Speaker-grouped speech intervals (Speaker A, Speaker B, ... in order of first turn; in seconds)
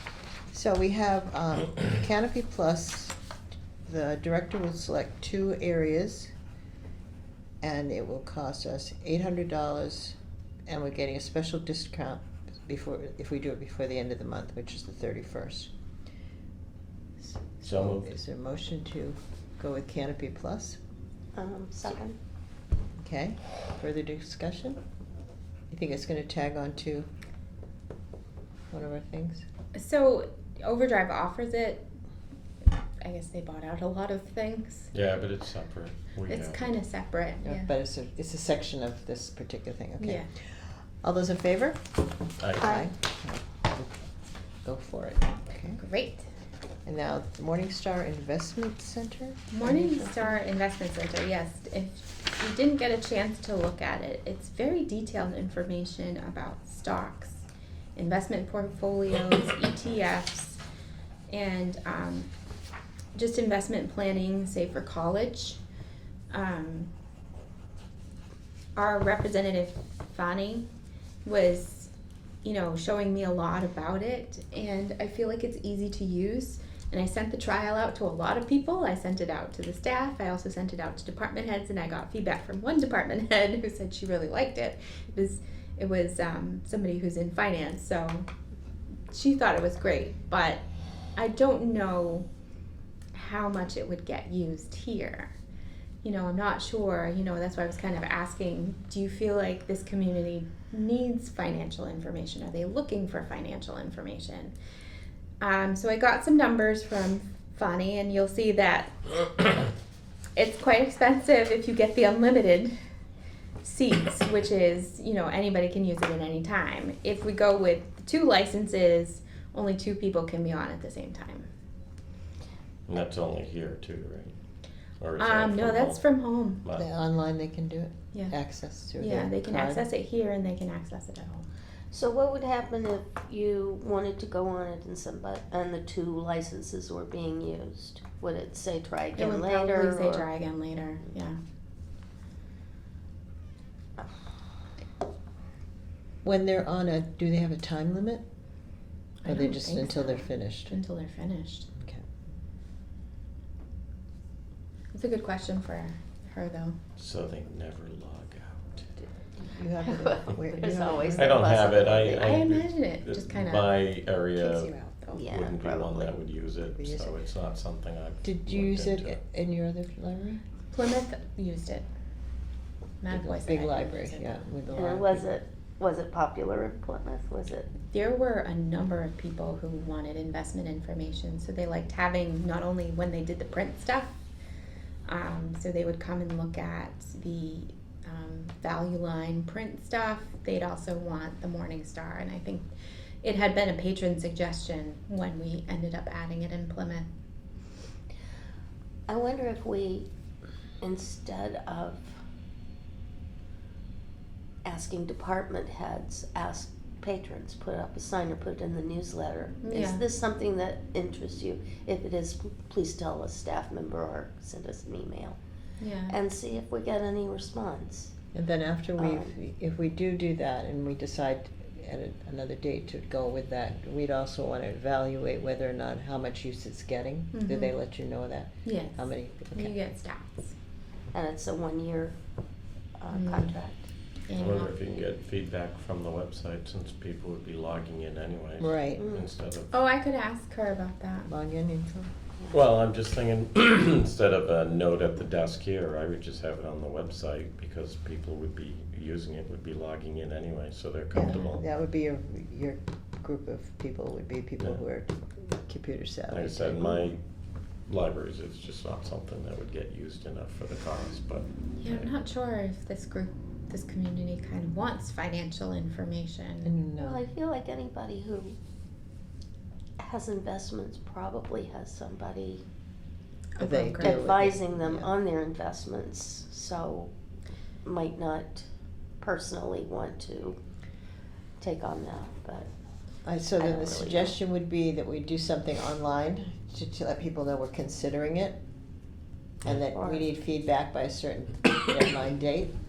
Speaker A: 0.5-3.1, 3.9-6.3, 7.6-15.7, 17.2-20.8, 23.0-24.8, 25.7-27.1, 28.7-29.4, 37.4-40.4, 41.0-41.9, 42.6-43.9, 44.6-45.8, 46.9-50.0, 126.7-129.9, 146.2-148.2, 149.2-150.8, 151.8-152.0, 159.5-161.4, 166.7-167.1, 168.2-170.4, 173.1-175.3, 218.3-229.8, 238.6-239.0, 241.3-242.1, 251.1-257.0, 266.6-267.2, 273.6-275.1, 283.2-288.6, 289.6-292.7
Speaker B: 17.6-18.1, 34.9-36.7, 42.4-42.8, 122.9-124.3, 125.0-126.0, 157.0-158.9, 161.2-164.7, 165.3-169.2, 234.3-239.7, 242.5-251.6, 256.3-257.2, 257.9-262.1
Speaker C: 21.3-22.2, 42.6-42.9, 131.9-140.3, 159.8-162.4, 165.1-166.1, 174.7-177.7, 199.1-200.1, 200.8-202.2, 204.7-215.4, 216.1-218.1, 219.0-219.3, 231.1-232.2, 233.0-233.9, 239.0-239.3, 267.0-268.6, 270.0-272.6, 274.0-277.1, 277.8-278.7, 279.2-280.6, 281.6-282.7, 283.6-284.4, 289.9-290.3
Speaker D: 29.8-31.9, 33.0-34.9, 36.3-37.7, 40.0-40.3, 45.8-46.3, 49.5-60.6, 61.3-62.3, 63.1-65.6, 66.3-66.9, 68.8-70.7, 71.2-71.9, 72.4-88.3, 89.1-90.6, 91.2-92.3, 93.1-95.3, 96.0-104.5, 105.4-109.7, 110.3-112.7, 113.6-121.5, 125.2-126.6, 129.0-131.5, 139.2-141.4, 149.2-151.7, 154.9-156.8, 162.2-163.8, 164.3-165.2, 170.7-171.9, 173.0-174.4, 177.9-184.2, 185.1-192.7, 193.2-197.1, 209.6-210.0, 215.8-216.2, 227.3-227.8, 228.7-230.5, 233.1-233.6, 234.3-234.8, 239.7-241.3, 261.8-266.7, 273.6-274.2